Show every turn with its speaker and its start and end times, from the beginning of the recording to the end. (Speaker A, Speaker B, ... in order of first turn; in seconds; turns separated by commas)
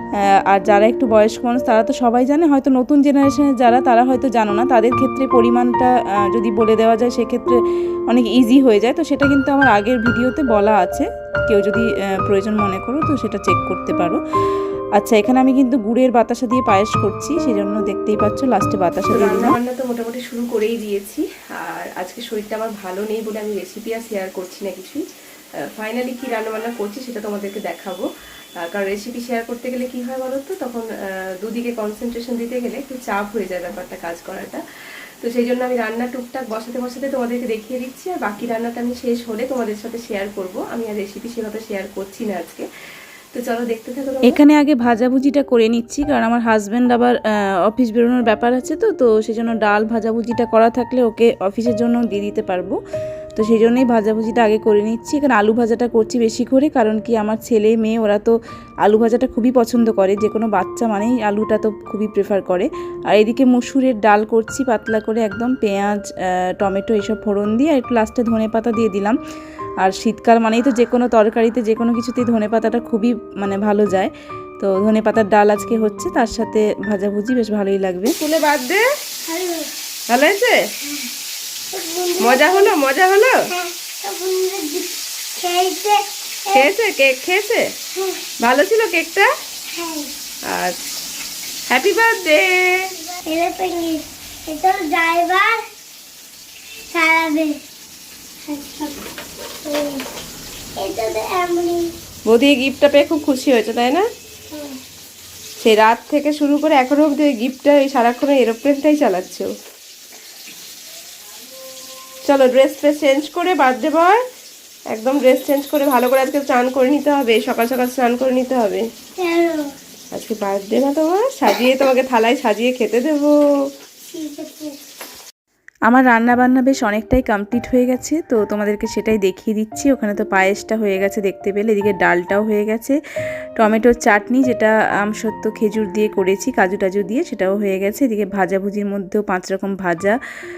Speaker A: 0.5-7.6, Speaker A: 8.1-19.6, Speaker B: 19.1-25.0, Speaker B: 25.7-28.1, Speaker B: 28.6-30.9, Speaker B: 31.4-34.6, Speaker B: 35.2-42.6, Speaker B: 43.3-44.4, Speaker A: 44.2-52.8, Speaker A: 53.4-69.2, Speaker A: 69.8-78.2, Speaker B: 78.2-78.8, Speaker C: 79.2-79.7, Speaker B: 80.1-80.6, Speaker C: 81.7-82.7, Speaker B: 82.2-83.4, Speaker C: 83.5-86.7, Speaker B: 86.5-87.7, Speaker C: 87.9-88.2, Speaker B: 88.4-89.3, Speaker C: 89.7-90.1, Speaker B: 90.5-90.8, Speaker B: 91.7-92.9, Speaker C: 93.2-95.6, Speaker C: 96.9-97.6, Speaker C: 98.5-99.0, Speaker C: 99.6-100.0, Speaker C: 100.8-101.9, Speaker B: 102.2-104.1, Speaker C: 104.5-104.8, Speaker B: 105.6-109.5, Speaker B: 112.2-114.2, Speaker B: 114.9-118.9, Speaker C: 119.2-119.7, Speaker B: 120.1-123.4, Speaker C: 124.0-124.8, Speaker A: 125.9-133.0, Speaker A: 133.6-140.2